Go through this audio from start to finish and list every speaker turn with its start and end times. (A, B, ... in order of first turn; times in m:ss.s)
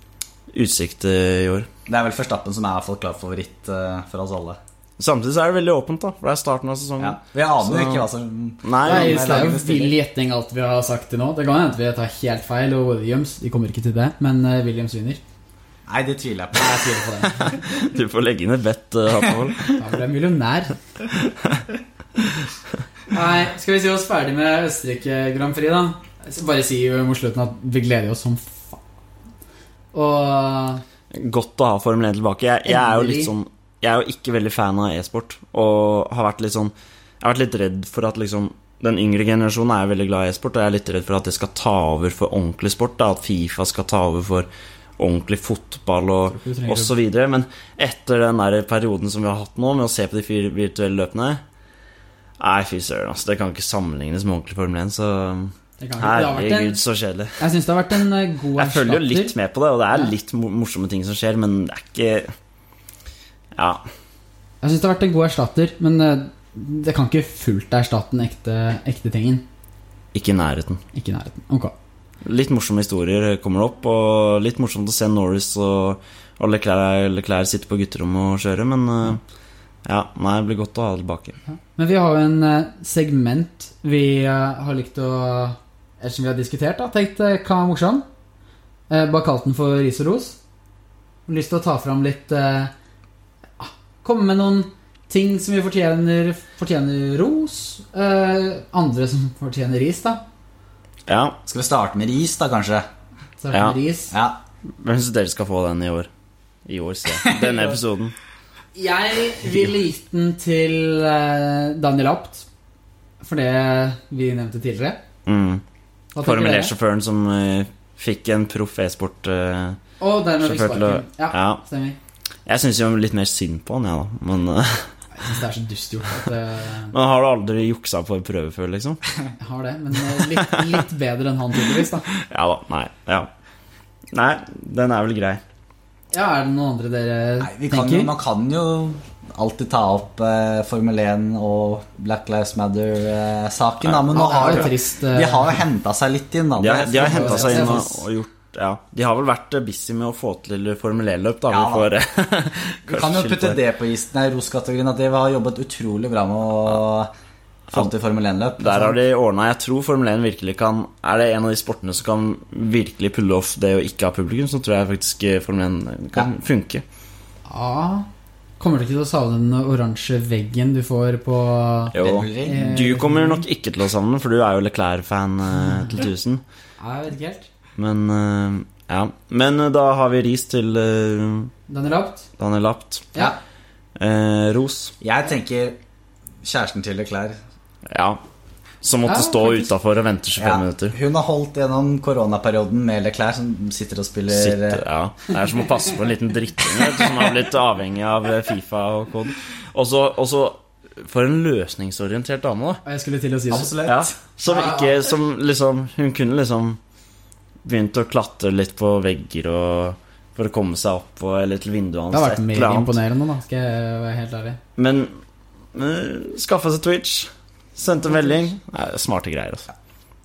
0:00.5-0:01.7 A
0:01.9-0:04.6 B
0:05.0-0:08.1 A
0:07.0-0:10.0 B
0:08.6-0:09.5 A
0:08.8-0:15.2 C
0:15.9-0:17.0 B
0:16.5-0:17.5 C
0:17.2-0:19.8 A
0:19.7-0:20.8 C
0:21.2-0:21.6 A
0:23.1-0:28.8 C
0:29.9-0:30.8 C
0:31.1-0:44.5 A
0:32.7-0:33.3 C
0:45.0-0:51.4 A
0:46.3-0:46.9 C
0:52.4-0:57.4 A
0:55.8-0:56.8 C
0:57.4-0:59.3 C
0:58.6-1:02.3 A
1:03.6-1:03.8 A
1:04.6-1:09.4 C
1:10.1-1:10.8 A
1:10.9-1:11.7 C
1:12.2-1:19.2 A
1:19.9-1:21.4 A
1:21.5-1:28.0 C
1:28.9-1:30.4 C
1:31.3-1:32.7 C
1:33.6-1:40.2 C
1:41.1-1:41.4 A
1:41.5-1:42.8 B
1:43.4-1:44.1 C
1:44.1-1:44.4 B
1:44.8-1:46.1 A
1:46.7-1:48.2 A
1:47.3-1:47.5 B
1:48.8-1:52.5 C
1:53.2-1:55.0 C
1:55.3-1:55.6 A
1:56.2-1:56.7 C
1:56.2-1:59.8 A
2:00.0-2:02.0 C
2:00.4-2:01.6 A
2:02.5-2:04.9 A
2:05.1-2:06.9 C
2:06.9-2:09.0 A
2:09.4-2:12.1 C
2:10.3-2:10.8 A
2:12.1-2:13.3 A
2:14.1-2:15.4 A
2:16.1-2:18.1 C
2:17.4-2:27.8 B
2:23.8-2:24.7 A
2:24.1-2:25.6 C
2:26.6-2:33.6 A
2:26.9-2:28.0 C
2:31.5-2:31.9 B
2:32.9-2:37.1 B
2:37.7-2:39.0 B
2:38.6-2:46.8 A
2:47.5-2:48.1 C
2:48.6-2:53.4 C
2:51.9-2:56.4 A
2:52.0-2:52.6 B
2:56.8-2:57.5 C
2:57.8-3:01.5 A
3:01.7-3:02.3 C
3:02.4-3:03.1 A
3:04.0-3:05.0 A
3:05.0-3:05.8 B
3:06.4-3:07.4 B
3:07.9-3:08.2 A
3:08.8-3:11.0 A
3:09.1-3:09.7 C
3:10.4-3:14.8 B
3:14.3-3:22.8 A
3:22.8-3:23.8 C
3:23.5-3:24.1 B
3:23.8-3:26.8 A
3:24.4-3:25.0 C
3:27.6-3:33.0 A
3:32.1-3:34.6 C
3:34.8-3:35.2 A
3:35.7-3:39.7 A
3:38.0-3:38.5 C